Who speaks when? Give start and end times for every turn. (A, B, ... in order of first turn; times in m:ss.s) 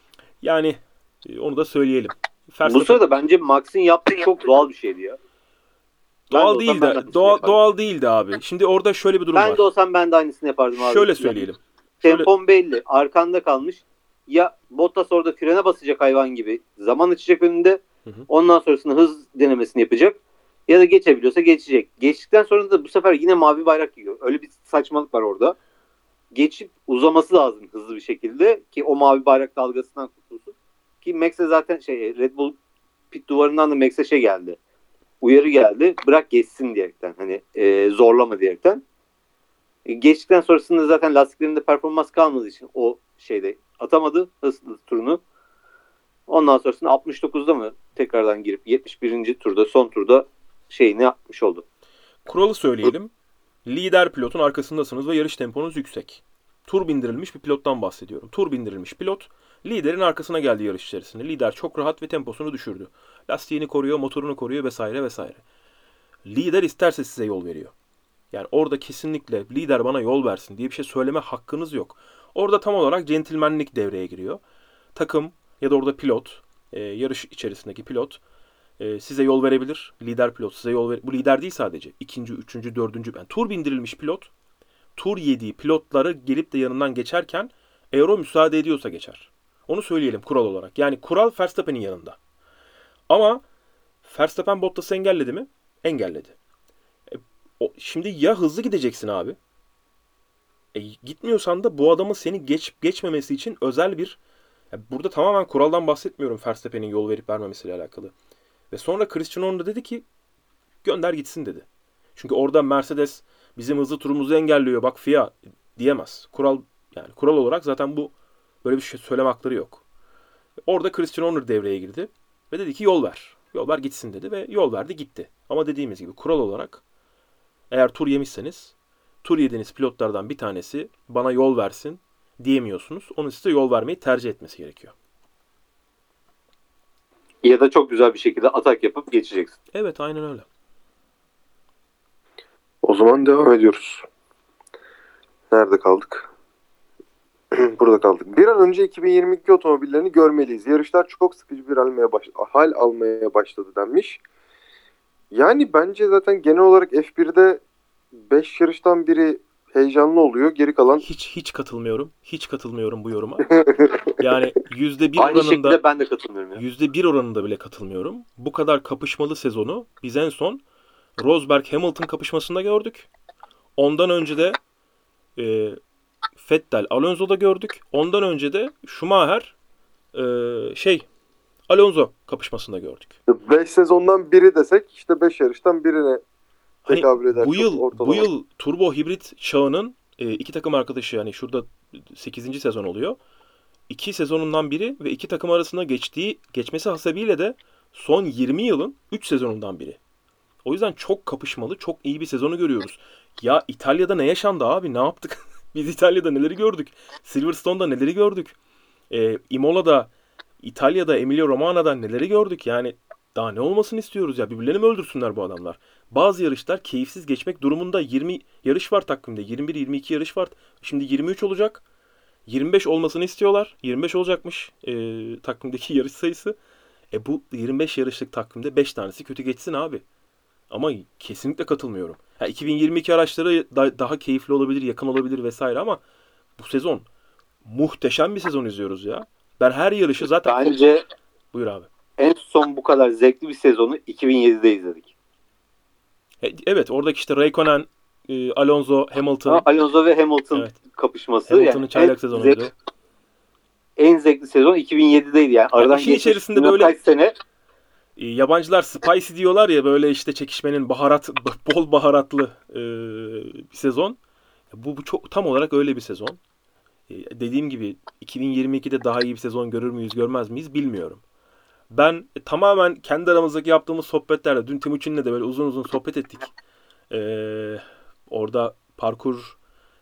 0:00.4-0:03.0 A
0:02.6-0:05.2 B
0:06.3-0:09.6 A
0:06.3-0:07.6 B
0:09.4-0:11.5 B
0:10.7-0:12.3 A
0:12.0-0:25.6 B
0:26.3-0:32.6 B
0:33.1-0:34.6 B
0:35.2-0:38.8 B
0:39.9-0:45.2 B
0:46.3-0:51.6 B
0:52.3-0:53.1 A
0:53.7-1:05.4 A
1:06.2-1:07.7 A
1:08.3-1:14.4 A
1:15.0-1:18.2 A
1:18.8-1:24.3 A
1:25.0-1:32.2 A
1:33.1-1:33.4 A
1:34.0-1:36.4 A
1:37.1-1:39.4 A
1:40.7-1:44.2 A
1:44.7-1:48.1 A
1:48.7-1:50.0 A
1:50.8-1:58.1 A
1:58.6-1:59.8 A
2:00.7-2:06.8 A
2:07.7-2:14.9 A
2:17.4-2:19.6 B
2:19.7-2:20.5 A
2:22.8-2:24.1 C
2:25.5-2:26.3 C
2:27.5-2:34.2 C
2:35.3-2:37.6 C
2:38.2-2:41.0 C
2:41.0-2:43.5 A
2:43.4-2:44.1 C
2:44.2-2:45.8 A
2:45.2-2:46.6 B
2:46.6-2:50.6 A
2:51.2-2:53.1 A
2:53.8-2:54.6 A
2:55.4-2:55.8 A
2:56.4-2:59.6 A
3:00.1-3:01.1 A
3:01.7-3:03.2 A
3:03.3-3:06.2 C
3:06.8-3:13.2 A
3:06.9-3:08.3 C
3:13.9-3:20.0 A
3:20.6-3:28.6 A
3:29.1-3:30.1 A
3:30.6-3:41.8 A
3:42.5-3:46.6 A
3:47.1-3:50.0 A
3:50.7-3:56.0 A
3:56.6-3:57.1 A
3:57.6-4:00.8 A
4:00.4-4:01.0 B
4:01.5-4:01.9 A
4:02.2-4:05.1 B
4:06.4-4:09.7 A
4:09.5-4:12.6 B
4:11.5-4:12.7 A
4:14.0-4:17.3 B
4:15.8-4:17.0 A
4:18.2-4:24.2 A
4:24.7-4:26.4 A
4:27.1-4:31.2 A
4:31.9-4:36.5 A
4:37.1-4:39.6 A